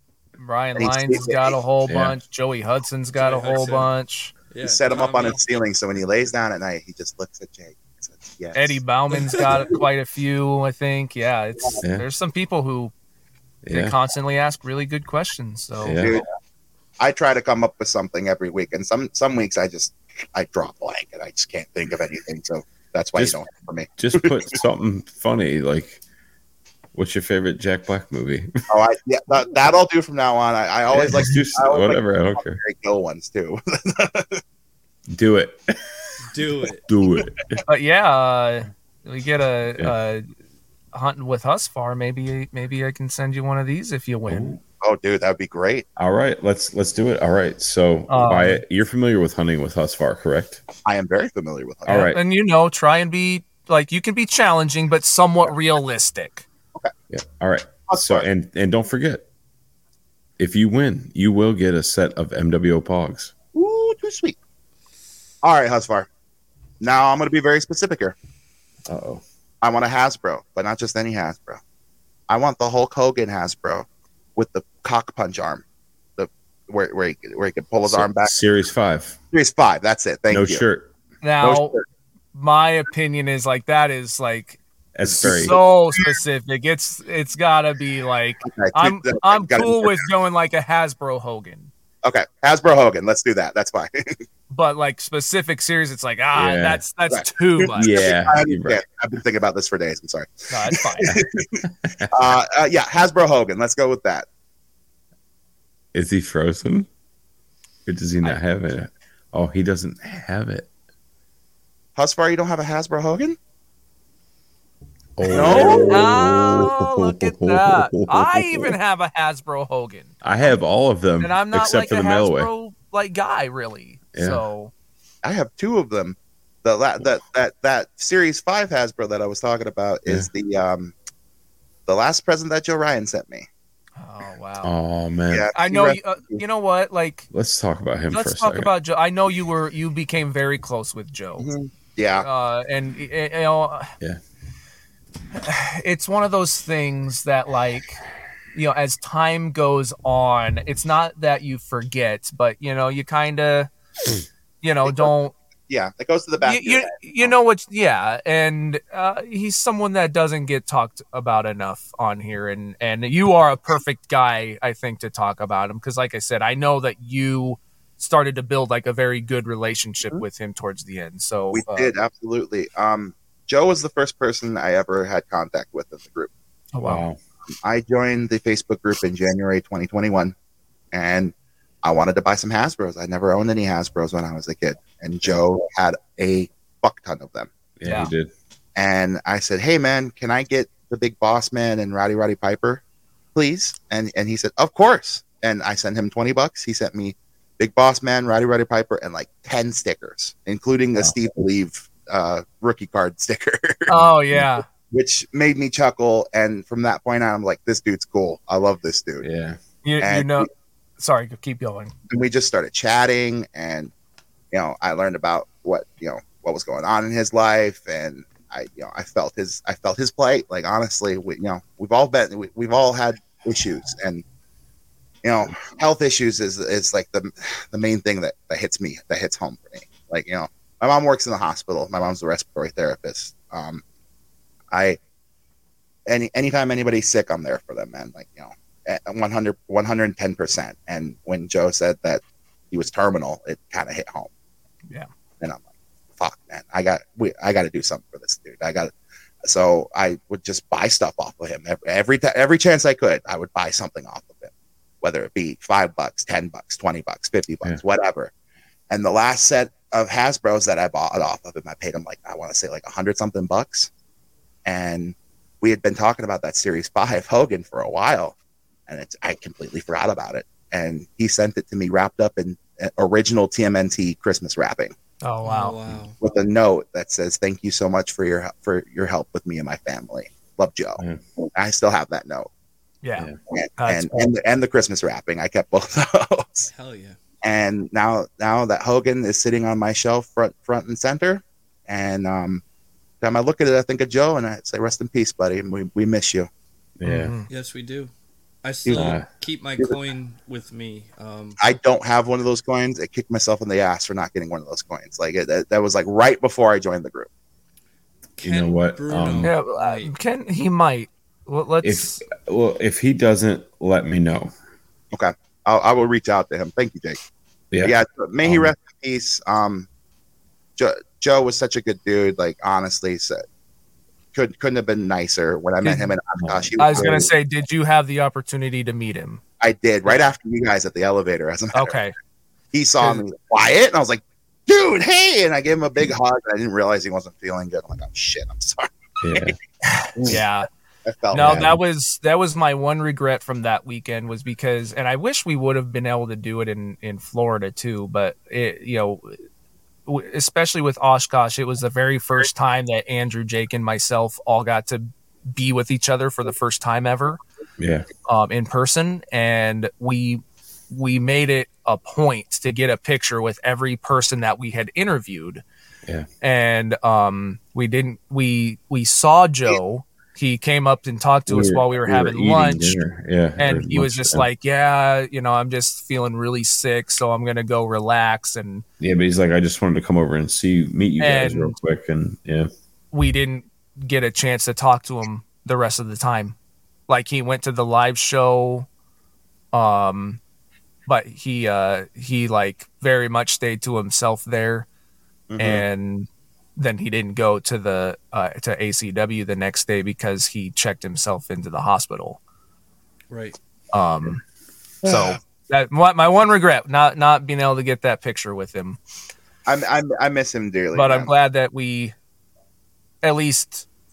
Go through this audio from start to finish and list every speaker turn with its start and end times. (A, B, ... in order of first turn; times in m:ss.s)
0:00.4-0:04.3 A
0:00.8-0:01.6 B
0:01.9-0:02.2 C
0:03.2-0:03.9 D
0:04.5-0:05.4 D
0:04.6-0:08.8 B
0:08.6-0:12.9 A
0:13.6-0:14.0 C
0:13.7-0:16.1 A
0:15.8-0:16.2 C
0:16.0-0:16.2 B
0:17.0-0:24.6 B
0:24.0-0:26.0 C
0:27.0-0:28.5 C
0:28.7-0:34.4 B
0:30.9-0:32.6 C
0:35.1-0:35.6 C
0:36.3-0:36.8 D
0:36.9-0:37.6 C
0:37.7-0:40.2 A
0:40.9-0:44.6 A
0:44.3-0:44.6 C
0:44.8-0:45.9 B
0:46.0-0:50.6 C
0:48.1-0:48.6 A
0:50.9-0:52.1 B
0:51.9-0:52.2 C
0:51.9-0:56.4 A
0:57.1-0:59.2 C
0:57.9-0:58.3 B
1:00.4-1:03.3 C
1:03.5-1:04.4 B
1:05.4-1:06.1 B
1:06.8-1:08.2 B
1:08.9-1:09.2 C
1:09.6-1:11.6 B
1:12.3-1:15.6 B
1:16.2-1:18.3 B
1:17.9-1:19.2 C
1:19.3-1:20.6 B
1:20.3-1:20.9 C
1:21.2-1:21.8 A
1:21.4-1:21.8 B
1:22.3-1:24.6 A
1:25.0-1:25.6 C
1:25.2-1:25.7 B
1:25.2-1:31.7 A
1:28.4-1:30.0 B
1:32.0-1:34.2 B
1:34.5-1:37.9 A
1:36.4-1:36.8 C
1:37.1-1:44.3 B
1:37.8-1:38.8 C
1:40.5-1:41.2 A
1:41.8-1:42.3 C
1:45.9-1:46.9 C
1:47.9-1:50.7 C
1:52.0-1:53.4 B
1:55.2-1:58.8 C
1:55.2-1:56.1 B
1:55.3-2:00.2 A
2:00.2-2:02.5 C
2:01.2-2:04.7 A
2:04.1-2:04.4 C
2:05.2-2:10.9 B
2:11.9-2:13.5 B
2:14.0-2:14.7 A
2:14.6-2:15.5 C
2:15.3-2:16.4 B
2:15.6-2:17.3 A
2:17.3-2:18.7 C
2:18.1-2:21.5 A
2:21.4-2:22.3 B
2:22.2-2:23.9 A
2:25.4-2:28.0 A
2:28.5-2:33.7 A
2:34.6-2:35.3 A
2:35.7-2:37.3 B
2:36.4-2:51.9 A
2:51.5-2:56.3 B
2:56.7-2:57.0 A
2:56.8-2:57.2 C
2:57.6-3:00.3 B
3:00.9-3:07.5 B
3:07.8-3:08.3 C
3:07.8-3:08.1 A
3:08.8-3:12.8 B
3:13.4-3:24.0 B
3:23.9-3:24.6 A
3:24.9-3:29.3 B
3:29.2-3:29.6 C
3:29.8-3:30.5 A
3:30.0-3:30.5 B
3:31.0-3:31.9 A
3:32.1-3:33.9 B
3:34.5-3:44.2 B
3:45.2-3:53.8 B
3:54.7-3:55.0 B
3:56.1-4:04.3 B
4:06.2-4:08.9 B
4:09.4-4:14.5 B
4:15.0-4:18.3 B
4:18.9-4:23.9 B
4:24.6-4:28.4 B
4:28.9-4:34.9 B
4:35.2-4:35.8 A
4:35.4-4:36.2 D
4:36.2-4:41.0 B
4:41.6-4:42.5 B
4:43.0-4:44.3 A
4:43.5-4:46.7 B
4:46.7-4:47.2 D
4:47.4-4:52.6 B
4:53.2-4:56.5 B
4:57.0-4:57.3 C
4:57.0-4:57.5 A
4:57.5-4:58.1 D
4:58.6-5:01.6 D
4:58.9-4:59.2 B
4:58.9-4:59.3 C
5:01.6-5:07.3 B
5:08.4-5:10.1 D
5:08.4-5:09.5 C
5:09.4-5:12.2 A
5:11.8-5:14.5 C
5:15.1-5:17.2 B
5:17.7-5:18.7 C
5:17.8-5:19.9 B
5:20.8-5:23.4 B
5:24.3-5:27.3 B
5:25.8-5:26.1 A
5:26.4-5:27.3 C
5:26.8-5:29.4 A
5:29.6-5:32.0 B
5:31.7-5:32.1 A
5:32.7-5:39.5 B
5:39.2-5:39.6 C
5:40.2-5:40.4 B
5:40.2-5:40.7 A
5:41.1-5:41.7 B
5:41.3-5:49.4 A
5:41.3-5:41.8 C
5:50.1-5:57.4 A
5:57.8-5:58.1 C
5:58.3-6:05.6 A
6:06.4-6:13.0 A
6:11.5-6:14.5 C
6:13.6-6:18.8 A
6:19.0-6:22.7 C
6:21.2-6:21.8 A
6:23.1-6:26.6 A
6:27.1-6:28.9 A
6:29.7-6:30.4 A
6:31.1-6:34.9 A
6:35.5-6:35.8 B
6:35.6-6:42.4 A
6:43.3-6:43.6 D
6:43.9-6:44.4 A
6:45.0-6:49.0 A
6:45.0-6:45.4 B
6:49.7-6:51.3 B
6:50.9-6:52.1 A
6:53.2-6:53.9 A